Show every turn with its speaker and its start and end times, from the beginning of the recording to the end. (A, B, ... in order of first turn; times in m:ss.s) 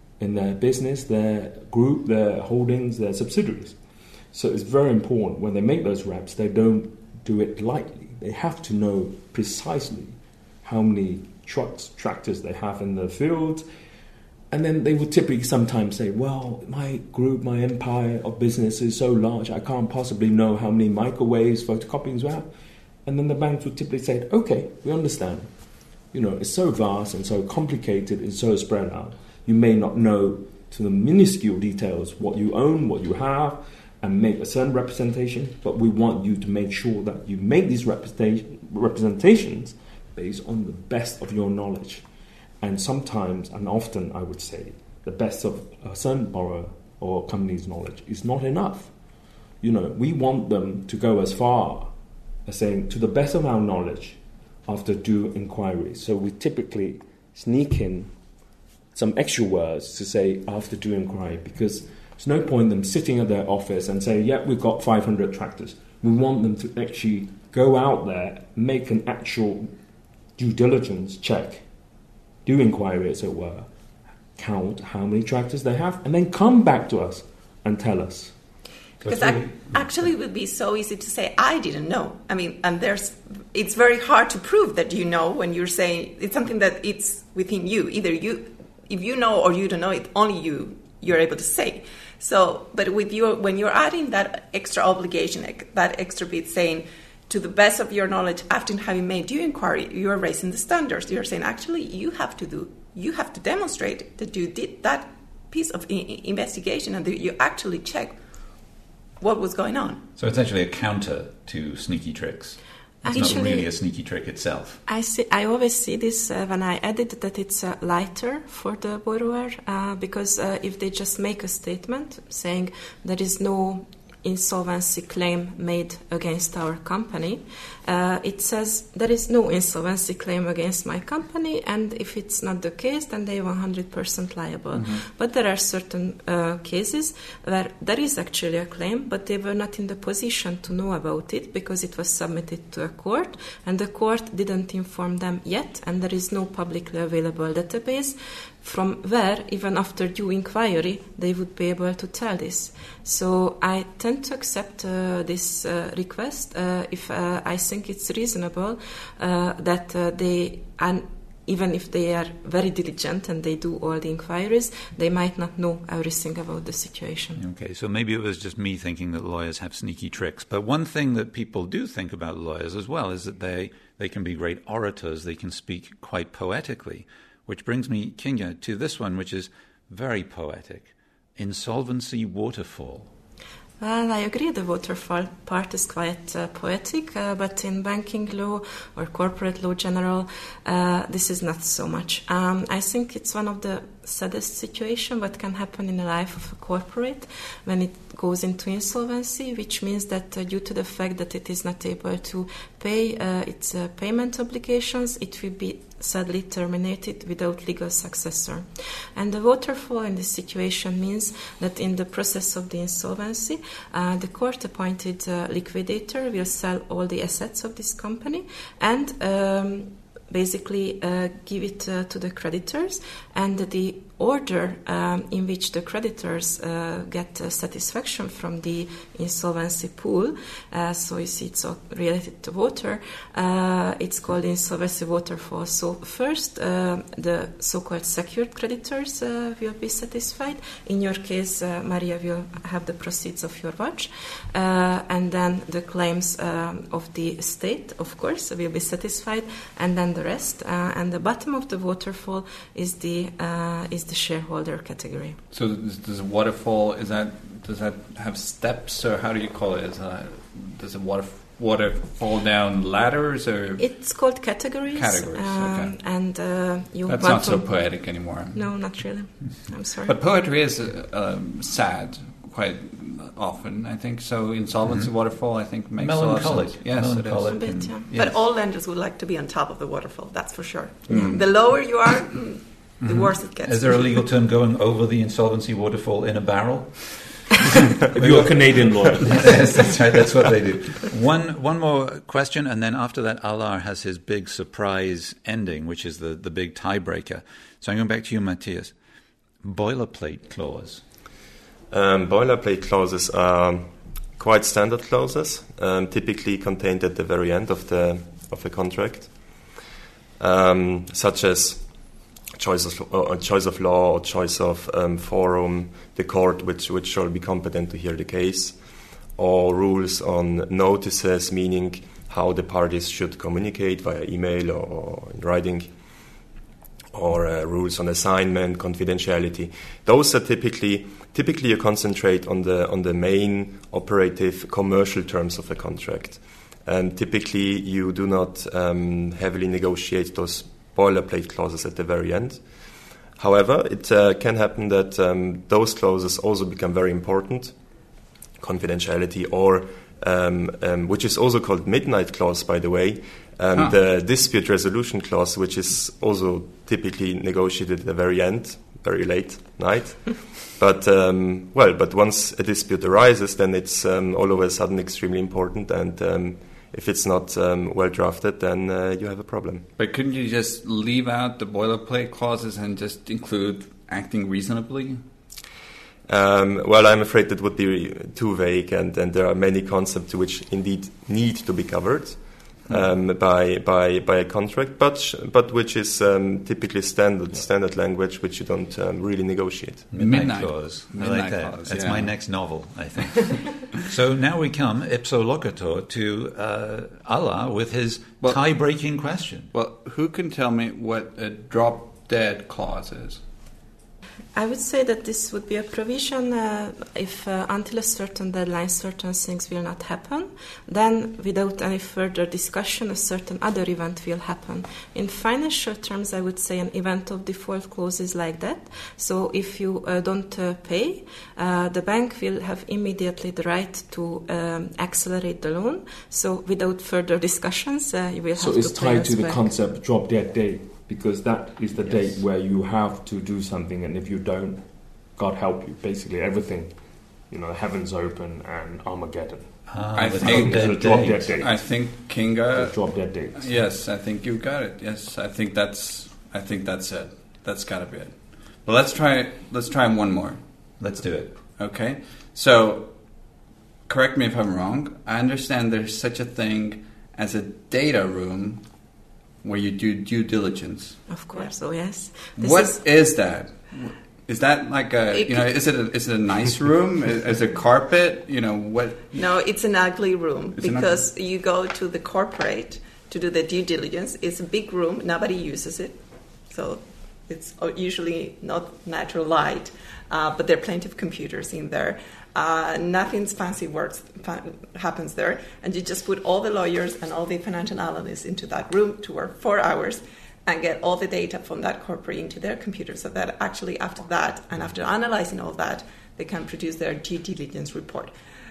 0:00.2-0:03.8 A
0:04.3-0:13.6 A
0:14.5-0:22.5 A
0:23.0-0:25.5 A
0:26.1-0:42.1 A
0:42.6-0:49.0 A
0:49.6-0:51.9 A
0:52.4-0:58.2 A
0:58.9-1:09.7 A
1:10.4-1:11.7 A
1:12.4-1:13.7 A
1:14.4-1:18.4 A
1:19.0-1:48.1 B
1:19.0-1:19.7 C
1:49.2-1:50.0 B
1:50.2-1:54.8 C
1:53.0-1:53.7 D
1:54.9-2:47.4 D
2:14.7-2:15.0 E
2:47.4-3:03.1 C
3:03.8-4:15.4 D
4:15.5-4:24.3 E
4:23.8-4:27.9 D
4:24.9-4:26.0 E
4:27.1-4:29.2 E
4:28.5-4:30.1 D
4:30.0-4:38.2 E
4:36.0-4:38.3 C
4:37.5-4:38.1 D
4:38.1-4:44.3 B
4:41.1-4:41.5 E
4:43.0-4:59.0 C
4:48.1-4:50.0 A
4:59.6-5:01.0 C
5:01.9-5:09.8 F
5:10.4-5:26.4 F
5:27.1-5:47.8 F
5:48.6-6:09.9 F
6:10.0-6:15.2 E
6:16.3-6:30.1 F
6:30.1-6:39.7 C
6:30.1-6:32.4 E
6:33.4-6:34.0 E
6:39.7-6:43.4 E
6:44.6-7:09.7 D
7:08.6-7:21.8 A
7:19.9-7:21.5 C
7:20.1-7:30.6 E
7:22.7-7:23.8 A
7:31.0-7:31.6 C
7:31.7-7:33.4 E
7:34.1-7:38.8 E
7:39.6-7:41.4 E
7:41.3-7:43.0 D
7:42.6-7:49.4 E
7:45.3-7:45.7 B
7:49.3-8:18.3 B
7:50.8-7:51.2 E